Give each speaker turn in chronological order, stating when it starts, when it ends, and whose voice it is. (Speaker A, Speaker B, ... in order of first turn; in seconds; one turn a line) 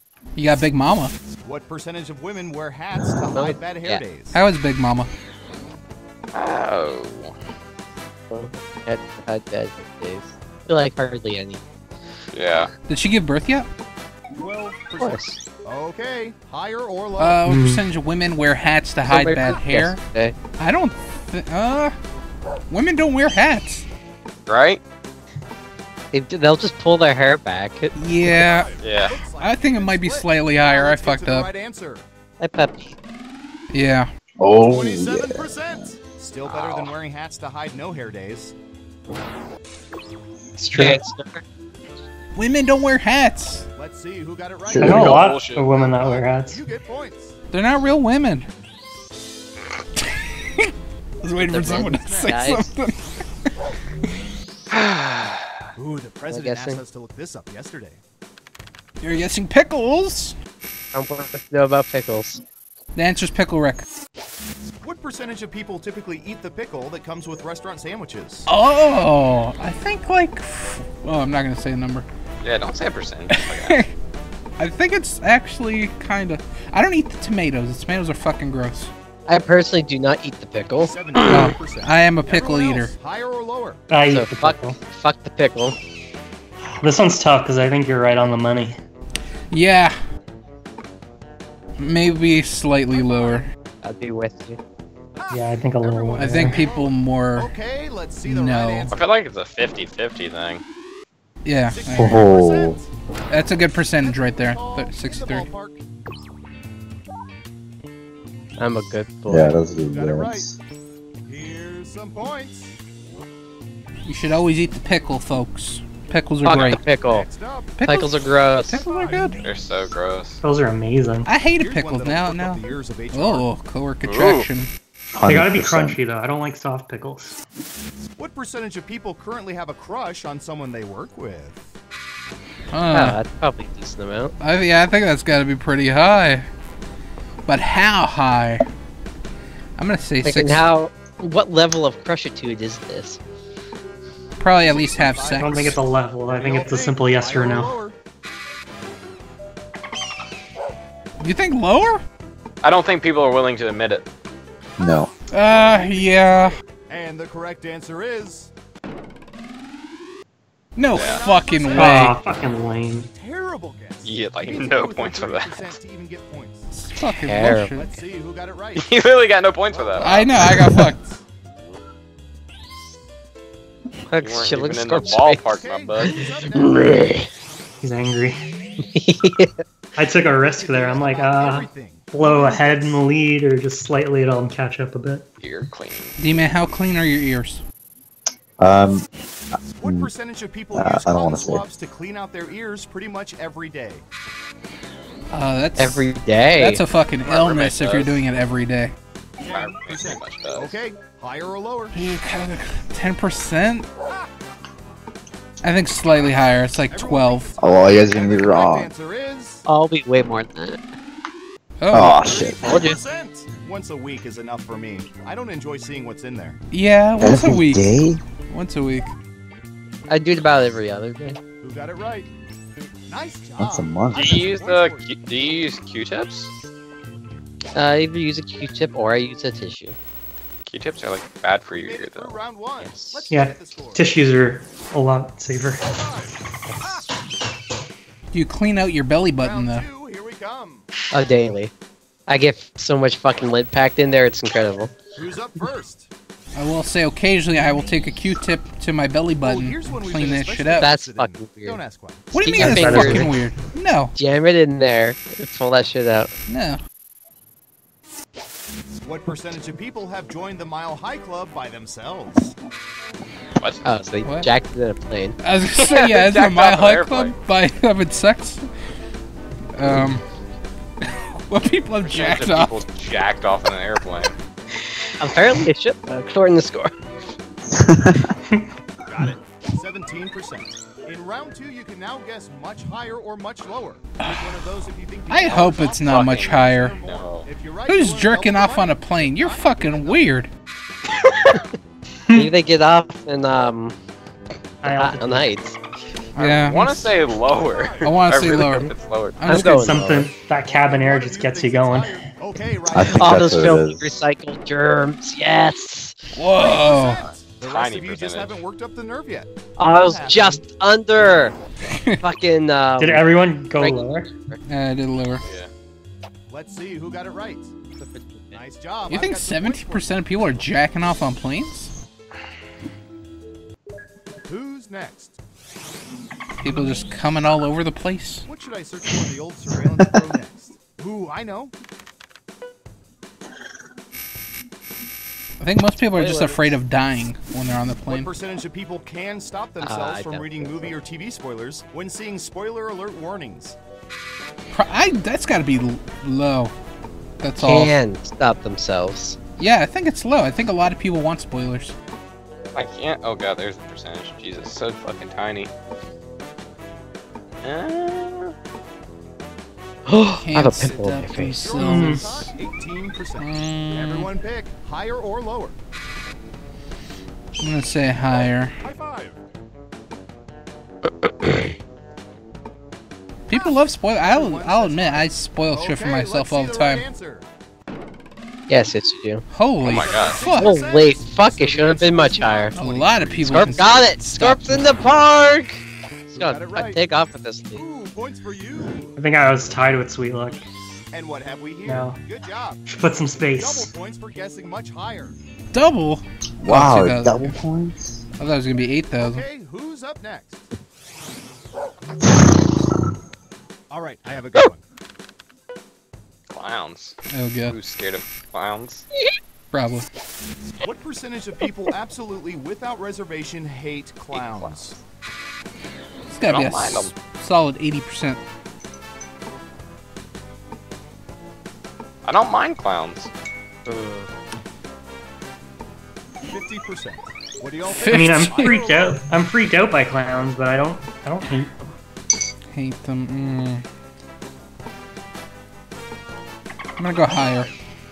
Speaker A: 0.3-1.1
Speaker B: 1.4-4.4
Speaker C: 3.3-4.0
Speaker A: 4.3-5.1
Speaker D: 6.3-7.3
Speaker C: 8.3-11.6
Speaker D: 12.3-12.7
Speaker A: 12.9-13.7
Speaker B: 14.4-17.4
Speaker C: 15.0-15.4
Speaker A: 17.2-20.0
Speaker E: 17.4-17.8
Speaker C: 19.1-20.3
Speaker A: 20.6-21.9
Speaker A: 22.7-23.9
Speaker D: 24.5-24.8
Speaker C: 26.1-27.9
Speaker A: 27.9-28.7
Speaker B: 28.2-32.0
Speaker D: 28.8-29.2
Speaker A: 29.4-31.5
Speaker C: 32.4-33.0
Speaker A: 33.7-34.1
Speaker F: 34.4-35.8
Speaker B: 34.6-38.5
Speaker D: 36.4-36.9
Speaker E: 40.6-41.0
Speaker C: 40.7-41.4
Speaker A: 42.4-43.6
Speaker B: 43.8-47.4
Speaker F: 44.7-45.2
Speaker E: 44.8-46.6
Speaker D: 44.9-45.8
Speaker A: 47.5-48.5
Speaker A: 50.0-50.7
Speaker A: 51.2-53.0
Speaker C: 51.4-52.7
Speaker B: 51.7-52.4
Speaker D: 54.7-55.6
Speaker B: 55.8-58.0
Speaker C: 56.3-56.8
Speaker A: 59.0-60.4
Speaker C: 60.9-62.4
Speaker A: 62.9-63.8
Speaker B: 64.8-68.5
Speaker A: 68.5-72.0
Speaker D: 72.4-73.8
Speaker A: 73.3-73.9
Speaker A: 74.6-78.9
Speaker C: 79.3-80.9
Speaker B: 80.8-83.8
Speaker A: 81.2-82.9
Speaker E: 83.9-84.8
Speaker C: 84.1-85.8
Speaker E: 86.8-88.8
Speaker A: 89.5-89.9
Speaker A: 91.8-93.5
Speaker C: 93.8-94.6
Speaker B: 95.2-99.0
Speaker E: 95.3-96.7
Speaker A: 96.2-97.5
Speaker A: 98.2-98.9
Speaker D: 98.9-100.6
Speaker A: 101.4-102.3
Speaker B: 101.6-102.9
Speaker F: 101.9-102.8
Speaker A: 103.3-105.5
Speaker B: 103.9-105.8
Speaker C: 108.6-109.5
Speaker F: 109.3-110.6
Speaker B: 109.9-110.5
Speaker B: 111.2-112.7
Speaker A: 114.0-116.8
Speaker C: 116.4-117.2
Speaker B: 116.5-117.8
Speaker A: 117.8-119.4
Speaker C: 117.8-118.8
Speaker B: 118.7-119.5
Speaker D: 119.4-120.4
Speaker E: 120.4-121.3
Speaker A: 121.2-124.7
Speaker B: 121.5-123.5
Speaker D: 124.0-124.5
Speaker F: 125.1-126.0
Speaker E: 125.3-127.4
Speaker B: 128.2-131.7
Speaker A: 132.7-133.2
Speaker C: 132.9-134.3
Speaker A: 134.4-136.5
Speaker A: 137.5-138.7
Speaker A: 139.8-140.7
Speaker C: 140.2-143.2
Speaker A: 144.4-145.8
Speaker B: 144.6-148.0
Speaker E: 145.4-147.8
Speaker A: 151.2-152.0
Speaker D: 152.6-154.0
Speaker F: 154.8-155.1
Speaker A: 155.3-156.5
Speaker B: 155.4-158.5
Speaker A: 160.8-162.2
Speaker D: 160.9-161.2
Speaker B: 160.9-166.7
Speaker E: 161.7-163.1
Speaker D: 164.0-165.8
Speaker A: 166.7-167.9
Speaker C: 167.2-167.7
Speaker B: 167.7-168.9
Speaker D: 168.8-170.4
Speaker B: 169.7-171.2
Speaker A: 170.0-171.0
Speaker C: 174.1-177.2
Speaker D: 174.2-176.2
Speaker B: 175.6-176.9
Speaker E: 177.8-178.4
Speaker C: 178.9-179.6
Speaker E: 179.9-185.2
Speaker B: 180.3-183.0
Speaker D: 185.4-186.2
Speaker A: 186.2-187.6
Speaker F: 188.6-189.1
Speaker B: 189.8-194.0
Speaker F: 189.8-190.1
Speaker F: 190.7-191.6
Speaker A: 195.3-198.9
Speaker C: 195.8-196.8
Speaker D: 197.2-198.2
Speaker B: 199.4-202.0
Speaker D: 199.4-200.8
Speaker A: 201.9-203.9
Speaker A: 205.6-207.5
Speaker B: 206.9-209.6
Speaker F: 207.6-208.9
Speaker C: 209.7-210.8
Speaker A: 211.8-212.2
Speaker F: 211.9-212.8
Speaker B: 212.0-216.6
Speaker C: 212.6-213.0
Speaker A: 216.7-217.9
Speaker F: 217.2-218.2
Speaker A: 218.5-219.1
Speaker C: 220.1-221.4
Speaker B: 221.6-222.3
Speaker B: 223.1-225.1
Speaker F: 223.6-224.4
Speaker D: 224.1-226.5
Speaker C: 227.7-230.0
Speaker D: 230.7-232.4
Speaker B: 231.8-234.0
Speaker C: 232.8-233.3
Speaker E: 233.3-235.8
Speaker B: 235.9-237.0
Speaker A: 238.3-239.8
Speaker B: 239.4-240.9
Speaker C: 241.1-241.7
Speaker C: 242.3-244.9
Speaker B: 245.2-246.1
Speaker A: 246.5-250.9
Speaker B: 249.4-252.3
Speaker C: 250.8-251.8
Speaker A: 252.3-254.1
Speaker C: 252.3-253.3
Speaker E: 252.6-253.3
Speaker C: 254.1-256.3
Speaker A: 256.5-256.8
Speaker B: 259.0-262.5
Speaker D: 263.6-264.0
Speaker C: 263.8-265.4
Speaker A: 264.2-264.5
Speaker A: 265.4-268.6
Speaker D: 265.7-267.3
Speaker A: 269.8-270.2
Speaker A: 271.0-272.8
Speaker D: 272.0-274.3
Speaker C: 275.2-276.9
Speaker F: 277.7-278.3
Speaker B: 279.1-290.3
Speaker A: 284.2-284.6
Speaker A: 285.3-287.0
Speaker D: 285.5-287.5
Speaker A: 287.9-290.5
Speaker C: 292.3-293.9
Speaker E: 294.8-295.5
Speaker C: 294.9-295.8
Speaker A: 296.4-297.1
Speaker D: 296.4-299.4
Speaker B: 297.5-298.1
Speaker A: 298.0-299.9
Speaker C: 299.4-300.3
Speaker E: 299.5-302.3
Speaker B: 300.6-303.8
Speaker F: 302.9-304.0
Speaker C: 303.2-306.1
Speaker A: 306.3-307.2
Speaker B: 306.6-310.6
Speaker D: 307.6-308.6
Speaker C: 309.8-311.6
Speaker C: 312.2-314.6
Speaker E: 313.0-314.3
Speaker A: 314.7-315.4
Speaker D: 315.4-315.7
Speaker B: 316.5-317.7
Speaker C: 318.0-318.6
Speaker B: 318.5-320.2
Speaker A: 319.1-321.9
Speaker B: 324.5-325.3
Speaker A: 326.6-328.4
Speaker B: 328.4-331.7
Speaker A: 335.6-338.3
Speaker C: 336.1-336.8
Speaker B: 338.1-343.8
Speaker C: 339.8-340.9
Speaker A: 344.7-346.7
Speaker A: 347.4-347.9
Speaker C: 347.6-349.4
Speaker A: 349.6-351.9
Speaker D: 352.7-355.7
Speaker D: 357.6-358.5
Speaker C: 360.1-361.6
Speaker A: 360.3-362.5
Speaker B: 361.4-365.8
Speaker E: 361.8-362.3
Speaker A: 363.4-364.3
Speaker A: 367.6-368.8
Speaker B: 368.8-369.4
Speaker C: 371.3-371.7
Speaker A: 373.5-377.1
Speaker B: 373.5-377.4
Speaker C: 378.7-379.4
Speaker A: 379.5-380.7
Speaker D: 379.8-380.4
Speaker B: 379.8-383.9
Speaker C: 380.5-382.7
Speaker A: 382.7-384.9
Speaker C: 383.5-385.8
Speaker B: 386.3-387.0
Speaker C: 386.3-387.8
Speaker B: 387.7-389.2
Speaker E: 389.2-390.6
Speaker B: 391.1-392.8
Speaker E: 391.8-392.2
Speaker E: 392.9-393.9
Speaker B: 393.5-395.4
Speaker A: 395.7-397.6
Speaker F: 396.6-398.2
Speaker A: 398.4-399.4
Speaker B: 399.2-400.6
Speaker B: 403.9-404.8
Speaker D: 406.5-407.1
Speaker A: 407.3-407.8
Speaker D: 407.7-409.0
Speaker A: 409.7-410.1
Speaker B: 410.8-415.0
Speaker D: 414.3-415.0
Speaker A: 416.3-418.4
Speaker D: 416.4-417.1
Speaker D: 422.2-423.3
Speaker C: 423.9-424.3
Speaker B: 426.5-429.2
Speaker A: 427.8-428.8
Speaker E: 428.1-431.9
Speaker A: 432.7-433.8
Speaker A: 437.0-437.7